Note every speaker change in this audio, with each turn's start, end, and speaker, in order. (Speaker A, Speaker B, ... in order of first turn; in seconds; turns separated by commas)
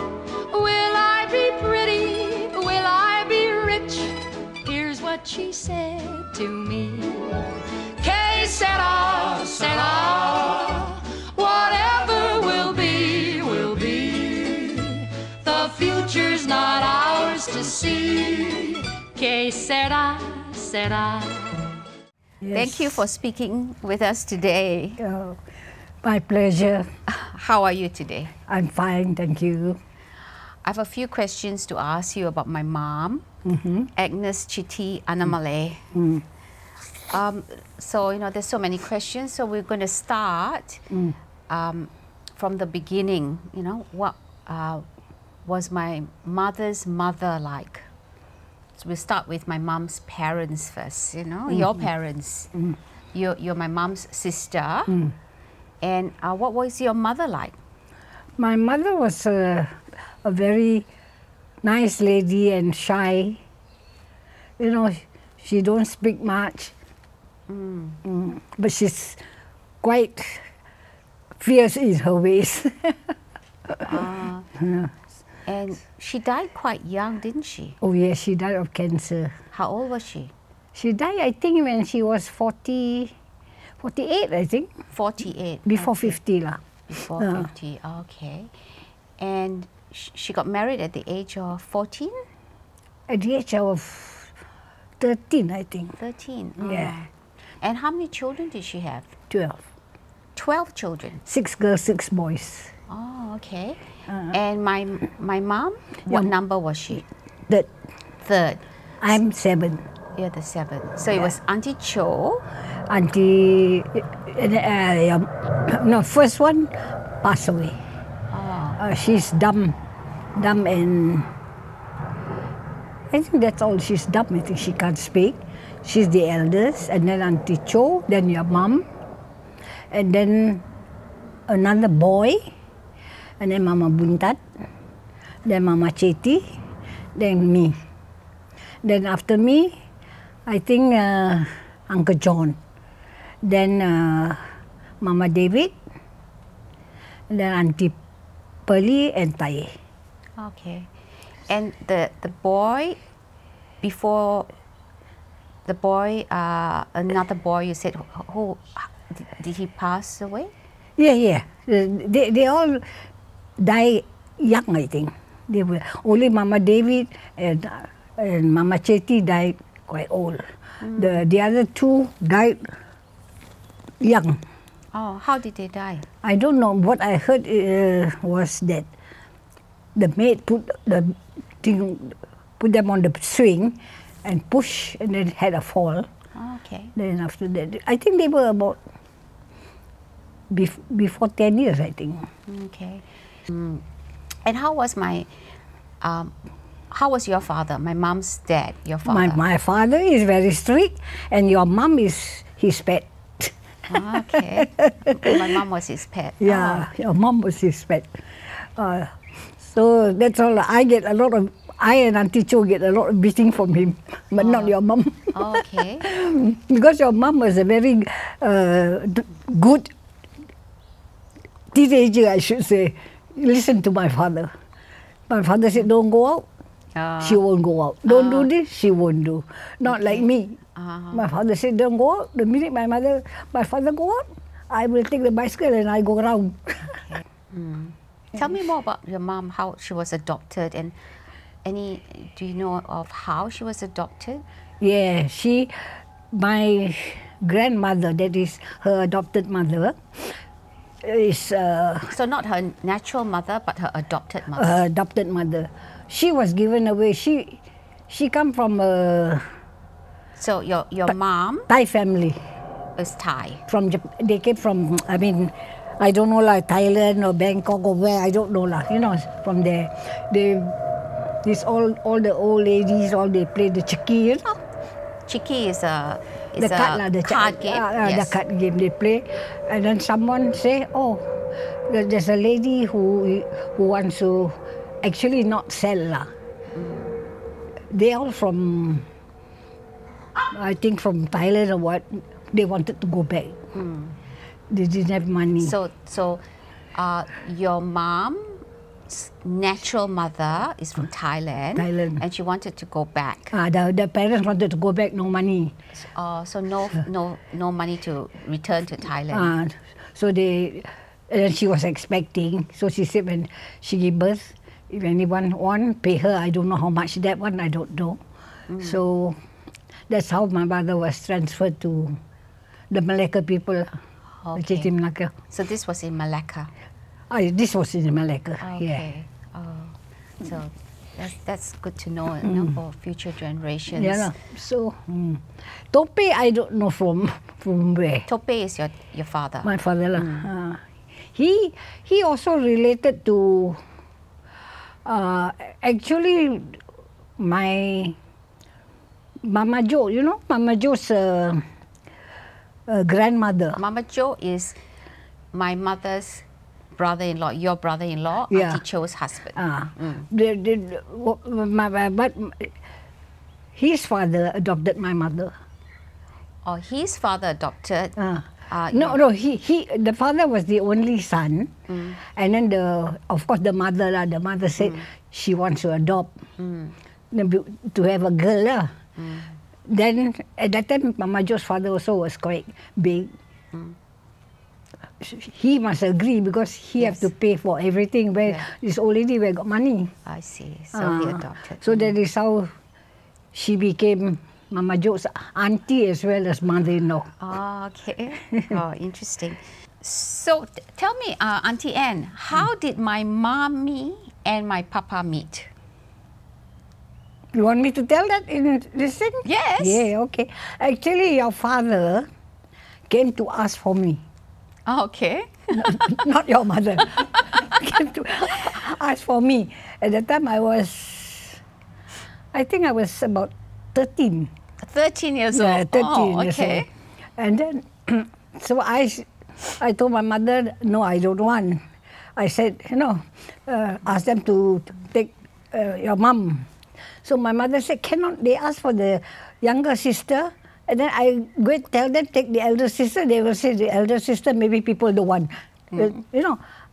Speaker A: 0.5-7.5, Speaker A: 8.0-21.7, Speaker B: 22.4-23.0, Speaker C: 22.5-25.0, Speaker B: 25.0-25.4, Speaker B: 26.0-26.9, Speaker C: 27.1-28.3, Speaker B: 28.5-29.8, Speaker C: 30.6-33.3, Speaker B: 33.5-33.9, Speaker C: 34.0-35.9, Speaker B: 35.9-36.2, Speaker C: 37.1-40.9, Speaker B: 40.9-41.2, Speaker C: 41.5-44.9, Speaker C: 45.5-47.9, Speaker C: 48.8-52.5, Speaker B: 51.5-51.8, Speaker C: 53.1-55.0, Speaker B: 54.9-55.1, Speaker C: 55.8-57.6, Speaker B: 58.4-60.9, Speaker B: 61.6-63.4, Speaker B: 64.6-66.7, Speaker C: 67.5-68.0, Speaker B: 68.0-69.2, Speaker B: 69.8-70.5, Speaker B: 71.4-73.2, Speaker B: 73.7-74.0, Speaker C: 73.8-74.5, Speaker B: 74.6-74.9, Speaker C: 75.5-77.8, Speaker B: 77.8-79.4, Speaker C: 79.5-80.3, Speaker B: 80.8-83.1, Speaker B: 83.8-84.7, Speaker C: 84.9-86.2, Speaker B: 85.7-86.6, Speaker C: 86.9-88.5, Speaker B: 87.2-87.5, Speaker C: 89.2-92.2, Speaker B: 93.1-94.3, Speaker B: 95.0-96.0, Speaker C: 96.0-97.1, Speaker B: 96.6-97.0, Speaker C: 97.6-99.1, Speaker B: 99.3-99.6, Speaker C: 100.3-101.2, Speaker B: 101.3-102.7, Speaker C: 102.9-107.0, Speaker B: 104.1-104.3, Speaker C: 108.2-108.6, Speaker B: 109.0-109.9, Speaker C: 110.2-112.5, Speaker B: 112.9-117.8, Speaker C: 118.3-118.8, Speaker B: 118.8-119.8, Speaker B: 120.3-121.3, Speaker B: 123.1-128.9, Speaker B: 129.9-130.7, Speaker B: 131.5-132.4, Speaker B: 133.4-134.4, Speaker B: 135.4-136.6, Speaker B: 137.2-137.8, Speaker B: 138.8-139.8, Speaker B: 140.5-142.6, Speaker B: 143.4-144.5, Speaker B: 145.0-145.8, Speaker B: 147.3-148.0, Speaker B: 148.7-149.7, Speaker C: 150.4-150.9, Speaker C: 151.5-153.0, Speaker C: 153.8-154.5, Speaker C: 155.7-160.5, Speaker B: 161.0-162.8, Speaker B: 163.6-172.7, Speaker C: 170.8-171.2, Speaker B: 174.0-174.4, Speaker C: 174.9-176.1, Speaker B: 176.2-178.9, Speaker B: 179.9-186.1, Speaker C: 186.3-186.9, Speaker B: 186.9-188.8, Speaker B: 190.5-192.3, Speaker C: 192.5-193.8, Speaker C: 194.4-195.3, Speaker C: 196.0-196.3, Speaker C: 196.9-199.4, Speaker B: 199.1-205.3, Speaker C: 203.9-206.9, Speaker B: 206.4-219.9, Speaker C: 214.4-214.7, Speaker C: 215.3-216.1, Speaker B: 221.7-224.5, Speaker B: 225.3-226.5, Speaker C: 226.9-227.4, Speaker B: 227.2-230.6, Speaker C: 228.1-228.5, Speaker C: 229.9-231.3, Speaker B: 231.1-237.0, Speaker C: 237.0-241.0, Speaker C: 241.7-244.4, Speaker B: 244.8-250.4, Speaker B: 251.0-252.1, Speaker C: 252.1-254.8, Speaker B: 254.6-259.5, Speaker C: 260.4-261.7, Speaker B: 261.7-262.4, Speaker C: 263.0-263.6, Speaker B: 263.7-270.8, Speaker B: 271.4-274.6, Speaker C: 275.3-278.4, Speaker B: 276.6-281.3, Speaker B: 281.9-286.3, Speaker C: 286.8-287.1, Speaker B: 287.9-289.1, Speaker B: 290.5-293.6, Speaker C: 293.7-294.2, Speaker B: 294.7-295.8, Speaker C: 295.6-296.4, Speaker C: 296.9-303.6, Speaker B: 301.8-302.2, Speaker B: 303.5-305.8, Speaker C: 305.9-309.6, Speaker B: 309.3-318.2, Speaker C: 318.7-319.0, Speaker B: 318.8-319.4, Speaker B: 320.1-322.2, Speaker B: 322.9-324.0, Speaker C: 324.4-324.9, Speaker B: 324.6-325.3, Speaker C: 325.5-326.7, Speaker B: 327.3-329.0, Speaker C: 328.6-334.3, Speaker B: 333.9-338.3, Speaker C: 338.3-340.5, Speaker B: 339.6-340.8, Speaker B: 341.4-343.8, Speaker B: 345.1-346.8, Speaker B: 347.4-348.2, Speaker B: 349.4-351.6, Speaker B: 352.9-353.8, Speaker C: 353.8-354.8, Speaker C: 355.5-356.4, Speaker C: 357.0-360.3, Speaker B: 358.5-358.8, Speaker B: 359.6-362.7, Speaker B: 363.8-365.6, Speaker C: 366.6-368.2, Speaker B: 368.2-376.3, Speaker C: 368.7-369.2, Speaker C: 371.9-372.2, Speaker C: 374.8-375.1, Speaker C: 376.6-377.0, Speaker B: 377.3-378.9, Speaker C: 379.2-379.5, Speaker B: 379.9-383.3, Speaker B: 385.2-390.1, Speaker C: 387.0-387.3, Speaker C: 390.3-392.1, Speaker B: 390.9-392.7, Speaker B: 393.5-397.3, Speaker C: 397.4-405.7, Speaker B: 407.5-412.3, Speaker C: 409.4-410.1, Speaker B: 413.1-414.2, Speaker C: 414.9-416.2, Speaker B: 415.8-421.6, Speaker C: 417.5-417.7, Speaker B: 422.5-424.5, Speaker C: 424.8-426.9, Speaker B: 425.5-426.9, Speaker B: 427.4-431.8, Speaker B: 432.4-436.7, Speaker B: 437.2-446.6, Speaker C: 445.9-446.2